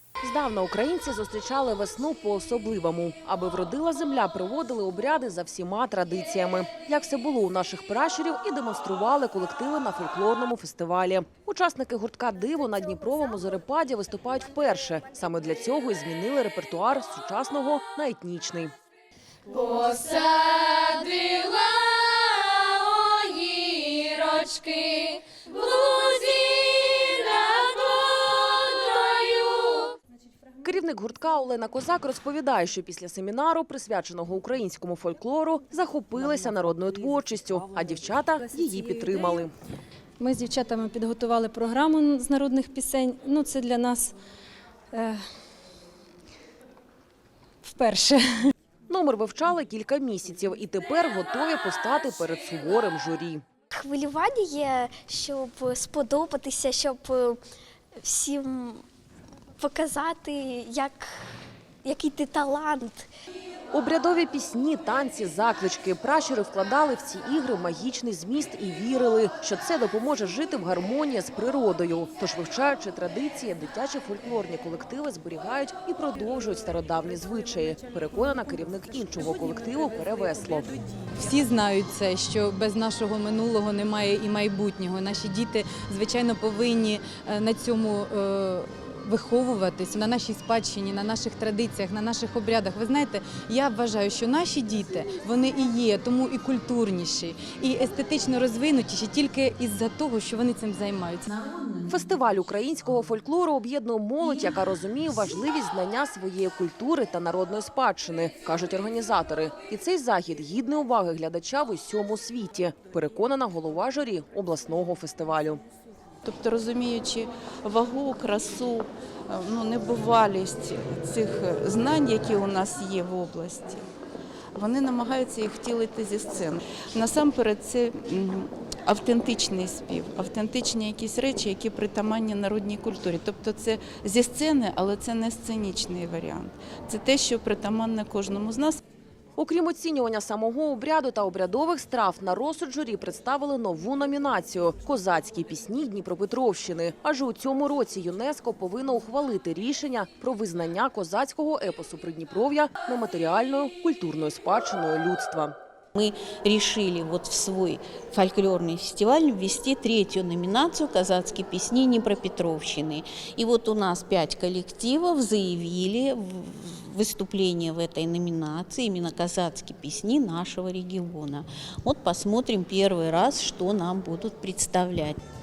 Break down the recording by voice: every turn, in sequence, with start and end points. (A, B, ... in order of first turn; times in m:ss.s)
0:00.2-0:18.7 A
0:19.5-0:29.9 B
0:30.6-0:39.5 A
0:38.5-0:39.2 C
0:40.2-0:44.2 C
0:44.9-0:45.3 C
0:47.6-0:48.5 C
0:48.9-0:53.4 A
0:53.7-0:57.4 D
0:58.0-0:58.8 D
0:59.6-1:01.1 D
1:01.8-1:03.1 D
1:03.7-1:20.7 A
1:21.1-1:41.6 E
1:41.4-1:41.8 F
1:41.8-1:55.6 A
1:56.2-2:03.8 G
2:04.5-2:18.8 G
2:19.4-2:35.5 A
2:35.9-2:55.2 F